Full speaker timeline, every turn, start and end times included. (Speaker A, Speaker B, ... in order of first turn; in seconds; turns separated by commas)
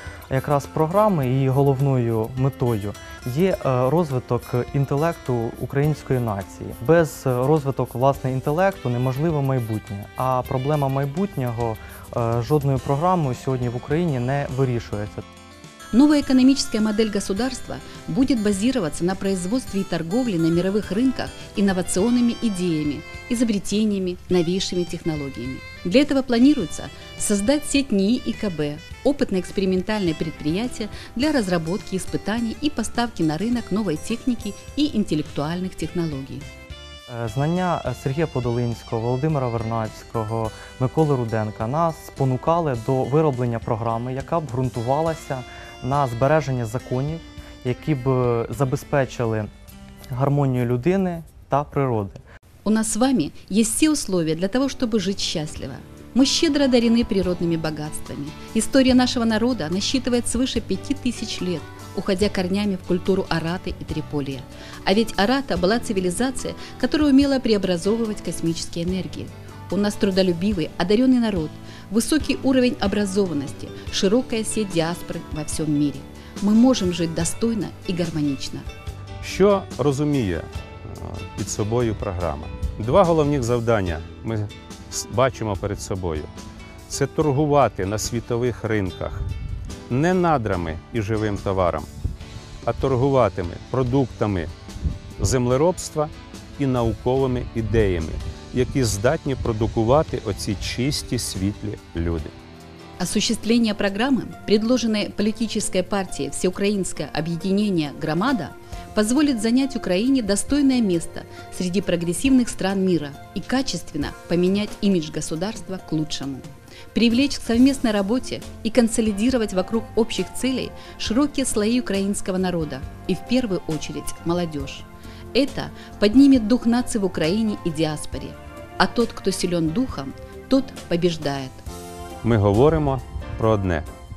Speaker A: 0.3-15.2, Speaker B: 15.9-36.5, Speaker A: 37.1-49.5, Speaker A: 50.1-52.2, Speaker B: 52.6-78.7, Speaker C: 79.2-86.3, Speaker C: 86.9-89.2, Speaker C: 89.9-91.9, Speaker C: 92.6-94.5, Speaker C: 95.2-102.3, Speaker B: 103.0-131.6, Speaker C: 132.2-133.9